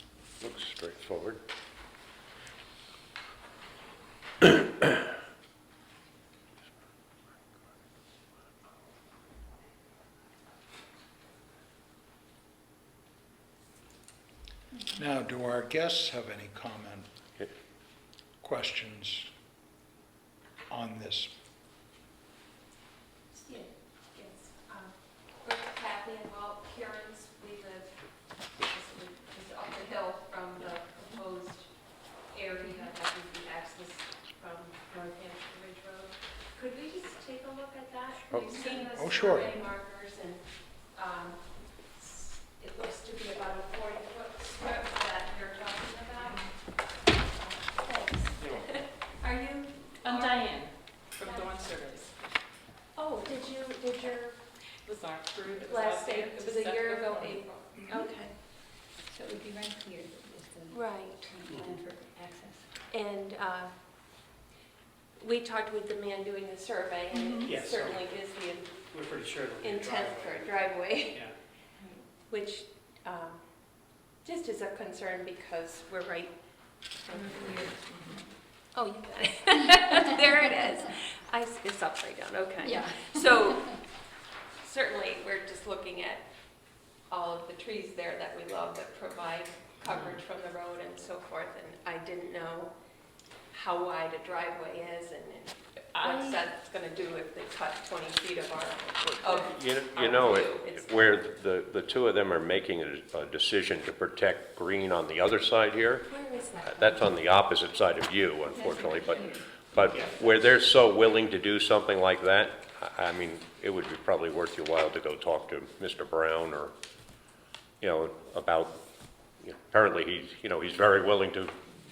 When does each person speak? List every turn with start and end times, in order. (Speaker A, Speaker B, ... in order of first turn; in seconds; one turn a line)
Speaker A: 0.4-1.4
Speaker B: 14.9-17.1
Speaker B: 18.4-19.3
Speaker B: 20.7-21.3
Speaker C: 23.3-28.1
Speaker C: 28.6-31.7
Speaker C: 32.3-46.5
Speaker A: 38.3-38.7
Speaker B: 38.9-39.6
Speaker C: 47.3-50.5
Speaker D: 50.0-52.1
Speaker C: 51.2-51.6
Speaker C: 53.0-54.5
Speaker D: 54.8-57.9
Speaker C: 55.6-58.4
Speaker E: 57.8-58.1
Speaker E: 58.8-62.8
Speaker C: 60.7-61.3
Speaker F: 61.5-61.8
Speaker C: 62.9-63.8
Speaker C: 65.2-68.9
Speaker E: 67.1-67.5
Speaker F: 67.4-68.2
Speaker F: 68.9-71.4
Speaker C: 69.6-71.2
Speaker C: 72.3-77.7
Speaker D: 77.2-78.2
Speaker C: 78.7-83.9
Speaker E: 82.6-83.8
Speaker C: 84.6-86.4
Speaker C: 87.1-92.8
Speaker C: 93.5-101.2
Speaker D: 95.9-96.4
Speaker A: 99.4-106.1
Speaker C: 106.0-107.2
Speaker A: 106.7-116.7
Speaker E: 108.5-109.2
Speaker F: 109.9-110.3
Speaker A: 117.8-118.8
Speaker A: 119.4-121.5